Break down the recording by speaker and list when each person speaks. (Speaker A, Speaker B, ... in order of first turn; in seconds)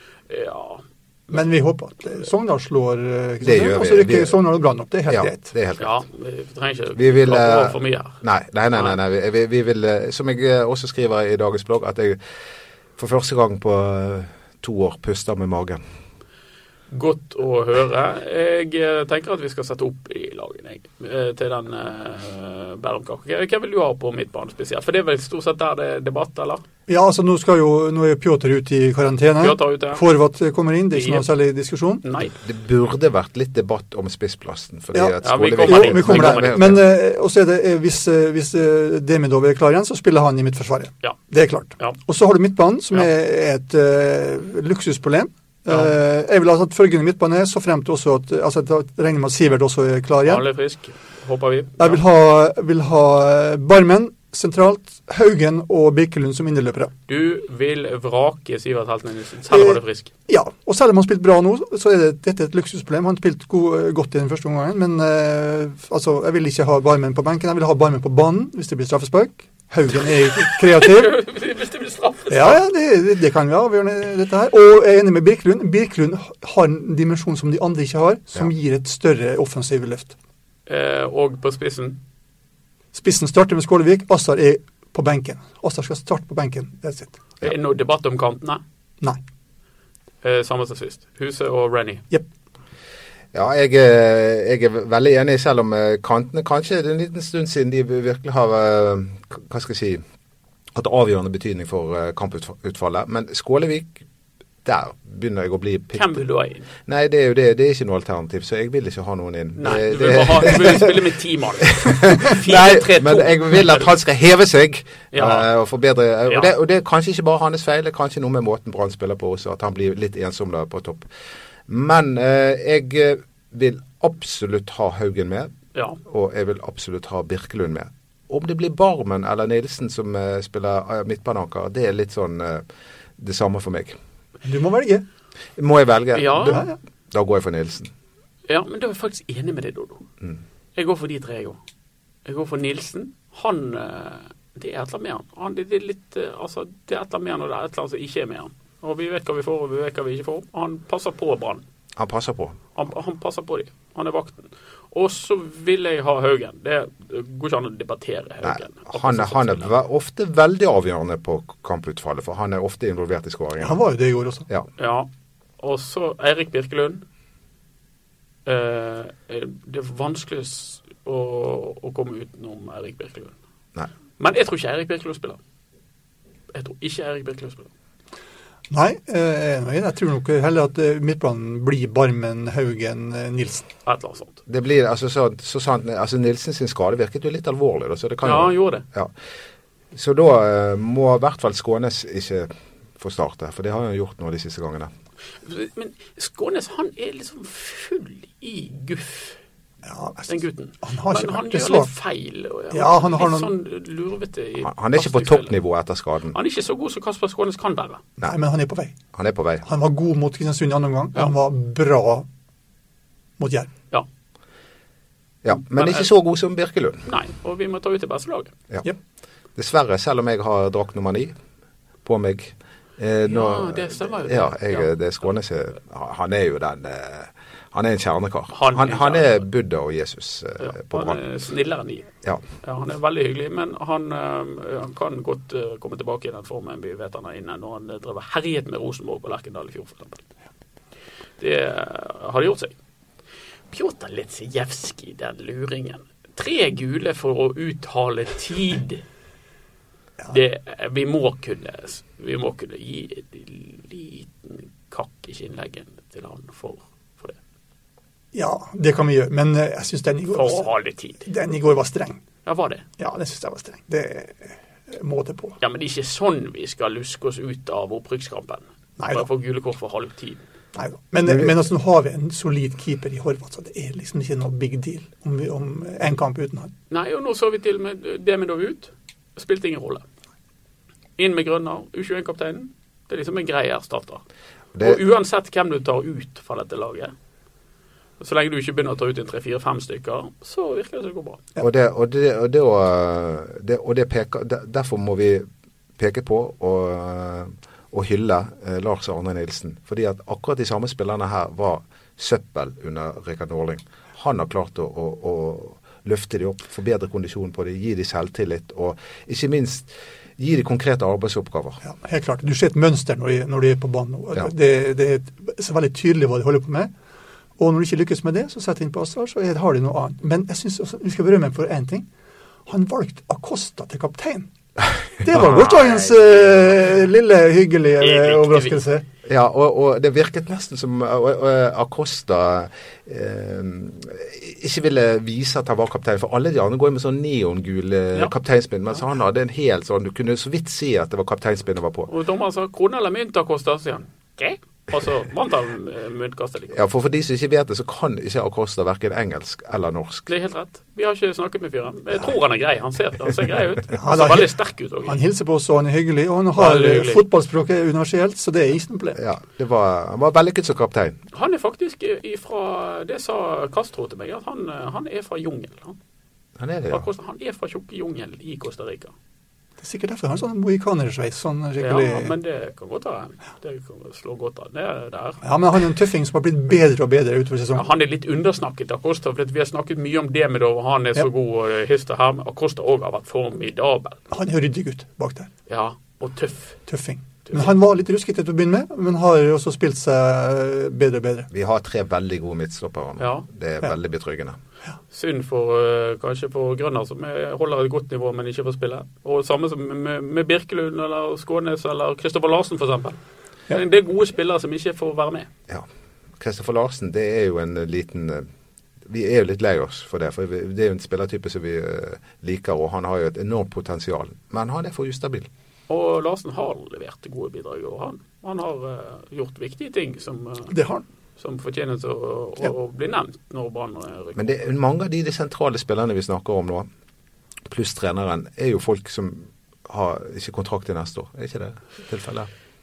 Speaker A: 0.3-1.4, 5.8-8.2, 16.9-26.6, 29.4-30.0, 30.9-31.3, 32.0-32.4, 35.2-36.8, 45.7-45.9, 50.2-52.0, 57.1-60.1, 70.5-72.6, 80.7-82.0, 87.4-88.6, 90.2-92.0, 105.9-106.7, 109.6-113.9, 115.1-115.5, 125.7-126.0, 136.1-136.6, 138.5-140.0, 140.8-141.6, 142.2-151.6, 152.8-159.7, 164.8-167.0, 168.4-173.3, 174.2-175.4, 176.5-177.7, 183.8-184.4, 188.2-188.8, 195.4-199.4, 200.3-205.5, 206.3-208.0, 215.7-216.1, 217.1-218.5, 223.2-224.9, 228.5-229.4, 230.6-232.1, 232.6-240.2, 241.4-242.7, 243.7-249.0, 250.3-257.4, 260.3-261.3, 262.4-262.9, 265.6-270.4, 276.9-280.0, 281.2-284.2, 284.8-287.1, 288.2-291.4, 325.4-326.7, 328.0-328.8, 342.1-346.8, 350.3-355.2, 356.5-357.2, 361.3-365.9, 366.9-369.1, 371.8-375.4, 377.7-384.2, 385.7-386.8, 387.5-387.7, 393.2-393.4, 395.1-403.2, 403.7-405.5, 415.9-420.7, 421.4-424.6
Speaker B: 1.3-5.5, 26.9-32.0, 34.9-50.4, 51.8-56.9, 59.5-71.2, 72.3-80.1, 82.9-87.2, 134.4-135.0, 136.5-136.7, 163.6-164.4, 178.7-183.7, 199.8-201.9, 202.7-203.5, 208.2-208.9, 209.6-212.3, 213.4-213.7, 258.3-260.7, 261.2-262.2, 263.0-265.6, 269.0-269.3, 270.7-276.7, 311.8-316.9, 317.6-322.1, 322.7-324.5, 325.2-329.0, 354.0-354.5, 355.1-359.2, 369.8-372.4, 375.4-377.9, 384.3-385.5, 386.9-391.5, 420.7-421.0
Speaker C: 3.4-4.4, 5.1-5.9, 7.0-12.2, 13.0-15.8, 32.4-36.8, 93.3-100.0, 100.7-104.0, 104.6-106.2, 106.8-110.9, 111.6-121.1, 121.7-125.5, 126.0-132.6, 133.2-134.0, 135.6-137.9, 152.0-152.6, 158.4-163.8, 184.5-189.1, 189.9-194.9, 204.6-206.4, 209.1-209.6, 215.4-217.1, 219.6-221.3, 222.0-231.2, 284.7-285.0, 291.6-295.4, 296.0-311.8, 329.3-342.1, 346.7-350.3, 359.2-361.2, 366.6-367.1, 391.5-394.6, 406.4-408.5, 409.1-415.5, 424.4-426.9, 427.7-432.5